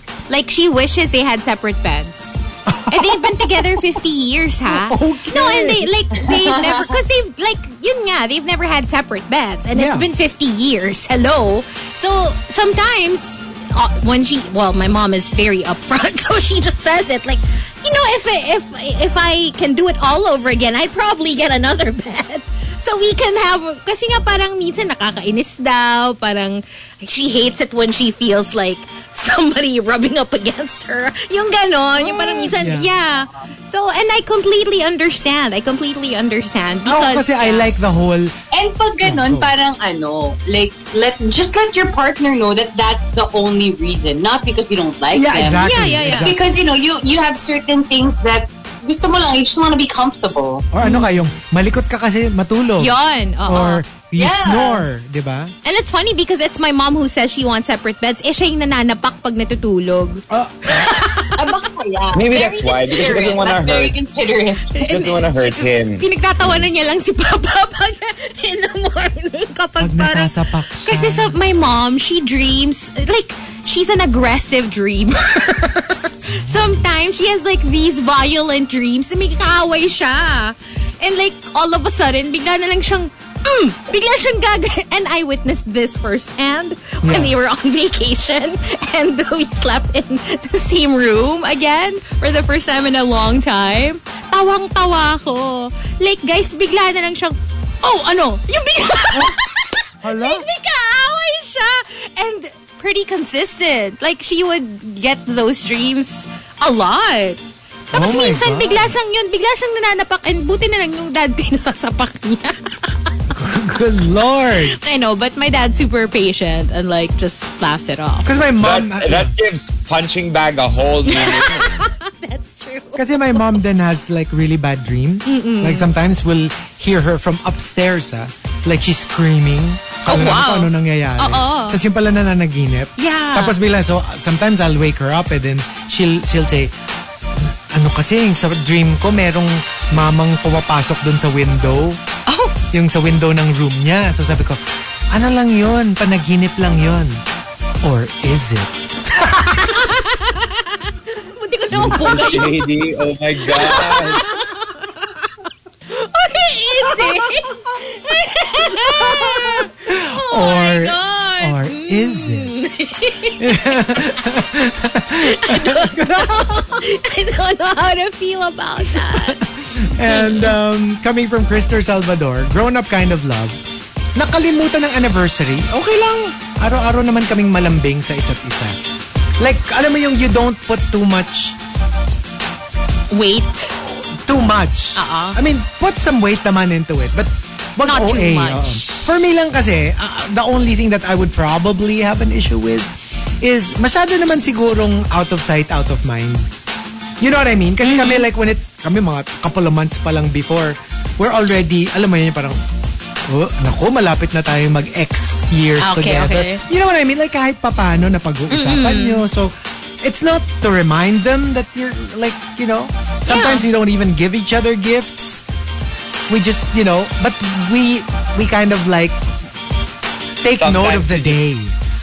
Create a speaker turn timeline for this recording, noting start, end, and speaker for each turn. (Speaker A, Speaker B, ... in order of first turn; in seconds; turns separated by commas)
Speaker A: 0.3-37.7, Speaker B: 2.7-4.0, Speaker B: 4.7-5.9, Speaker C: 6.2-7.0, Speaker B: 9.7-10.1, Speaker B: 32.0-32.9, Speaker B: 36.9-38.3, Speaker C: 38.5-50.6, Speaker B: 39.0-39.5, Speaker B: 45.1-46.5, Speaker A: 45.6-46.3, Speaker B: 50.7-55.5, Speaker A: 50.8-51.1, Speaker A: 52.8-53.8, Speaker C: 54.1-54.8, Speaker A: 55.6-61.3, Speaker B: 60.3-61.1, Speaker C: 61.3-64.8, Speaker D: 62.1-63.9, Speaker A: 64.7-107.4, Speaker D: 64.8-66.0, Speaker B: 69.8-71.4, Speaker B: 87.0-87.3, Speaker B: 100.0-100.5, Speaker B: 107.9-108.9, Speaker A: 107.9-113.1, Speaker B: 113.3-114.8, Speaker A: 114.8-118.3, Speaker B: 118.2-119.3, Speaker D: 118.6-121.9, Speaker A: 121.0-123.4, Speaker B: 123.0-136.7, Speaker A: 125.2-125.9, Speaker A: 130.1-131.8, Speaker A: 133.0-133.6, Speaker B: 137.3-142.0, Speaker A: 142.3-142.5, Speaker B: 142.7-147.2, Speaker B: 147.8-149.9, Speaker A: 149.2-152.6, Speaker D: 151.7-154.2, Speaker A: 153.5-155.1, Speaker A: 155.9-164.1, Speaker B: 156.9-157.2, Speaker B: 158.7-162.5, Speaker B: 163.4-166.9, Speaker A: 165.2-170.6, Speaker B: 168.8-173.6, Speaker B: 174.1-178.8, Speaker B: 179.4-181.6, Speaker A: 183.1-183.8, Speaker B: 184.2-196.5, Speaker A: 184.9-185.4, Speaker A: 187.8-189.0, Speaker B: 197.2-202.6, Speaker A: 197.8-198.3, Speaker B: 203.2-215.4, Speaker A: 205.8-206.6, Speaker A: 208.5-209.3, Speaker A: 213.3-213.7, Speaker B: 216.3-219.2, Speaker B: 220.4-221.8, Speaker D: 220.6-221.4